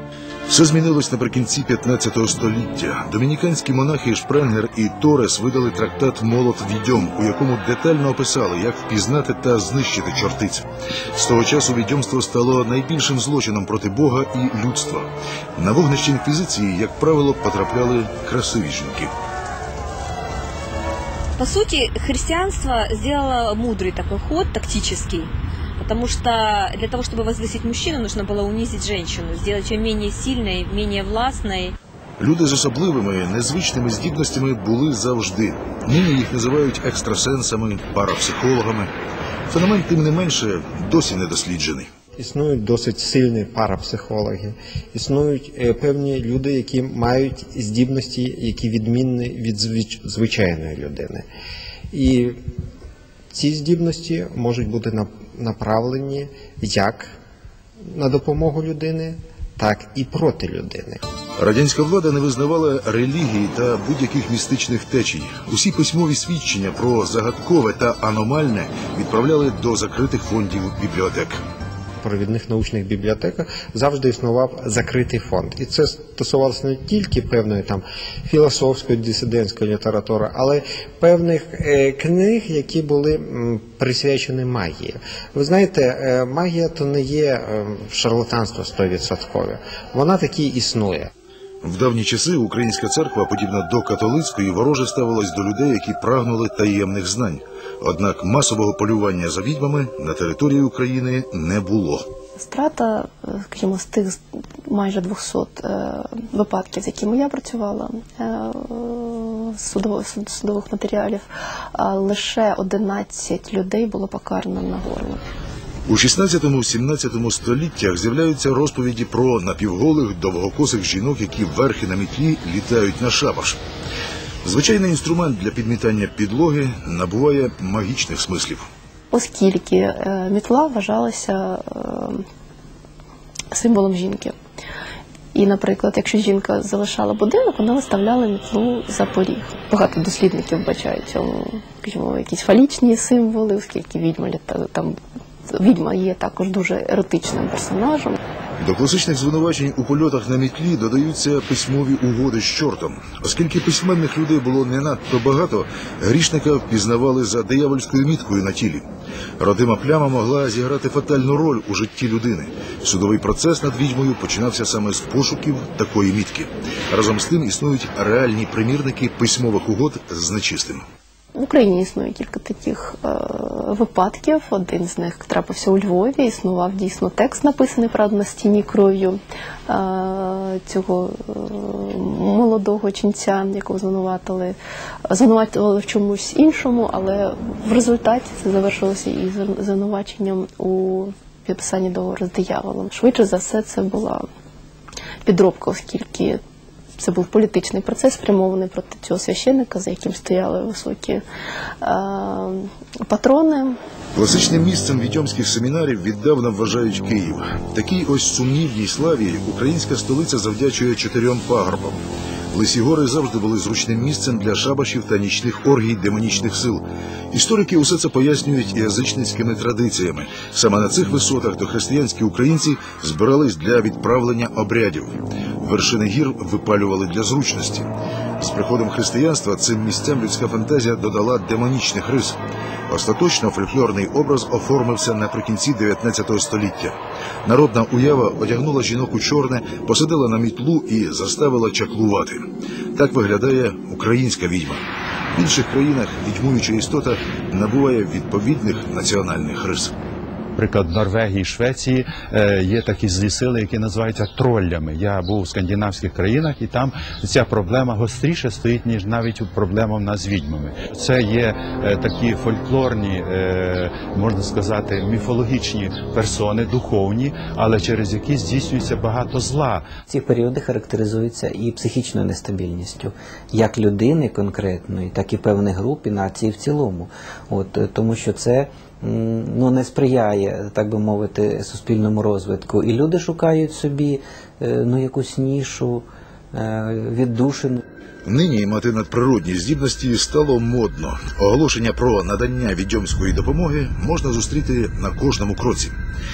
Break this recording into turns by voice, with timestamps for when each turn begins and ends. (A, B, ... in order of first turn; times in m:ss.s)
0:00.5-0:19.1 A
0:21.4-0:31.7 B
0:32.2-0:38.9 A
0:39.5-0:41.9 A
0:42.2-0:51.3 C
0:51.9-0:52.4 C
0:53.3-0:57.1 C
0:57.9-1:01.0 C
1:01.4-1:11.4 A
1:12.0-1:31.1 C
1:31.6-1:42.0 A
1:42.4-1:55.2 D
1:55.9-2:03.6 A
2:04.4-2:08.7 A
2:09.1-2:12.2 D
2:13.5-2:14.3 D
2:15.3-2:25.0 D
2:25.5-2:28.2 D
2:28.6-2:38.8 A
2:39.4-2:50.8 A
2:51.3-3:04.6 D
3:05.1-3:14.2 D
3:15.2-3:16.4 D
3:17.0-3:21.2 D
3:21.8-3:23.8 D
3:24.1-3:32.0 A
3:32.5-3:52.4 A
3:52.9-4:09.9 A
4:10.5-4:29.9 E
4:30.1-4:47.8 F
4:48.2-4:56.0 A